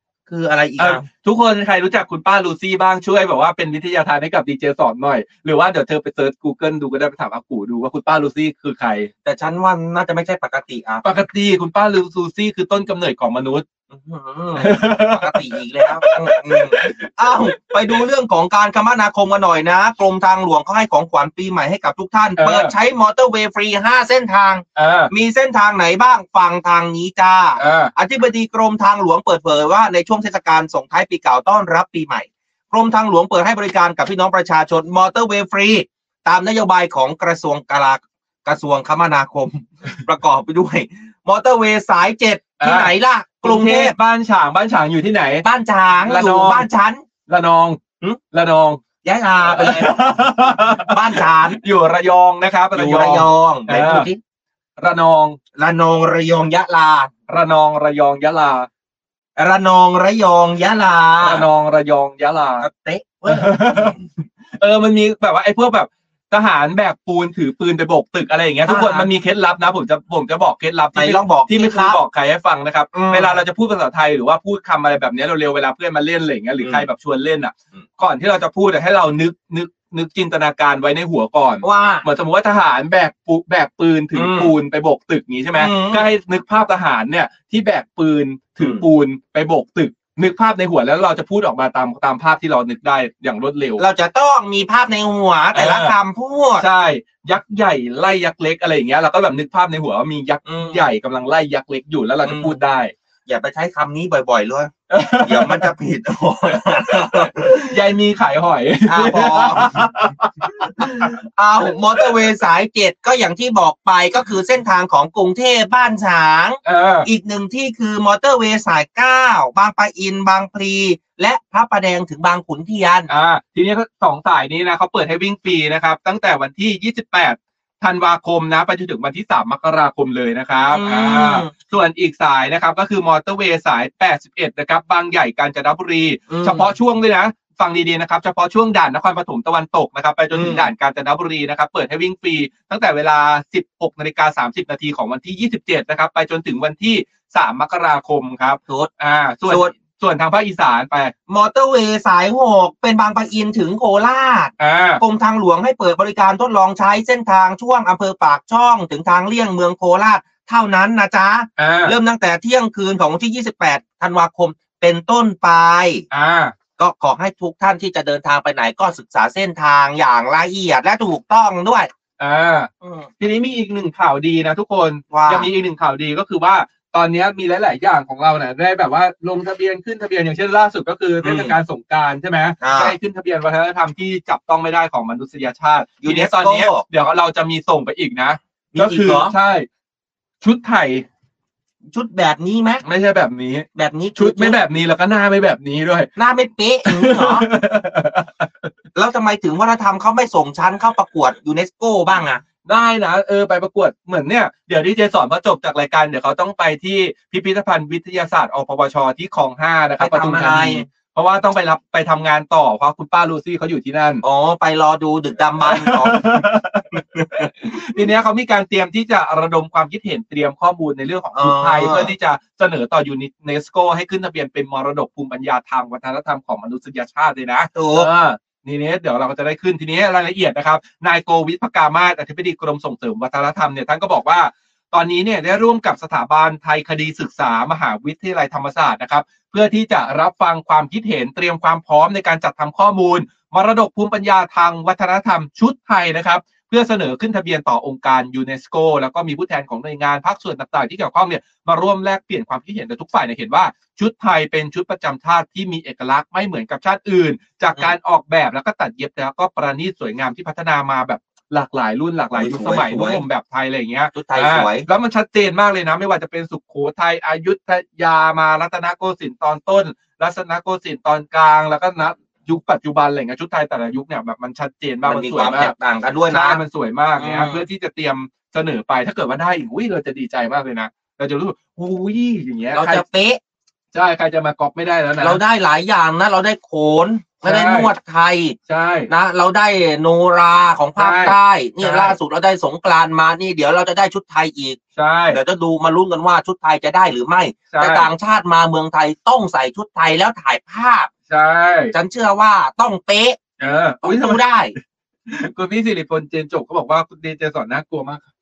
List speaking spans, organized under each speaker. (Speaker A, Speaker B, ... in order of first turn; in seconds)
Speaker A: 0.3-1.1, 9.2-11.0, 13.9-44.0, 45.4-47.0, 49.0-51.6, 52.7-54.2, 55.6-57.1, 59.4-61.5, 62.6-64.0, 68.7-69.1, 71.0-72.0, 72.9-73.3, 76.6-76.9, 81.6-82.0, 84.2-84.5, 85.6-86.1, 88.6-88.8, 93.8-96.7, 100.5-100.9, 102.2-102.6, 103.3-107.7, 108.9-109.8, 110.8-123.1, 130.7-131.5, 136.3-136.7, 140.3-140.7, 149.5-149.7, 151.3-166.0, 166.8-171.9, 172.8-173.1, 175.1-175.5, 181.2-181.6, 182.6-183.0, 186.0-186.8, 188.7-189.3, 191.9-192.8, 193.7-194.6, 196.2-197.5, 198.9-202.4, 210.0-210.9, 214.2-216.4, 217.1-217.5, 221.4-222.1, 227.8-228.1, 262.4-263.2, 264.1-264.9, 275.1-276.6, 277.2-277.6, 282.7-283.4, 285.2-288.6, 289.1-301.1, 301.9-303.4, 304.0-304.7
Speaker B: 0.8-9.1, 11.0-13.7, 14.6-17.1, 22.4-22.7, 24.8-25.1, 27.6-27.9, 42.6-45.5, 46.0-46.7, 47.3-48.8, 49.5-54.1, 54.8-55.4, 57.3-58.7, 61.2-62.7, 63.3-64.0, 64.6-93.8, 95.5-96.0, 96.6-102.9, 104.9-105.7, 107.1-111.1, 116.7-117.1, 123.1-151.1, 154.6-155.0, 161.6-161.9, 166.1-166.5, 172.2-189.7, 190.4-191.1, 192.8-196.1, 196.8-198.7, 202.7-214.2, 215.6-275.7, 276.3-283.0, 283.9-285.4, 287.4-287.9, 288.7-289.1, 291.0-292.2, 295.0-295.4, 297.7-298.1, 301.3-301.9, 303.6-304.4, 305.3-308.3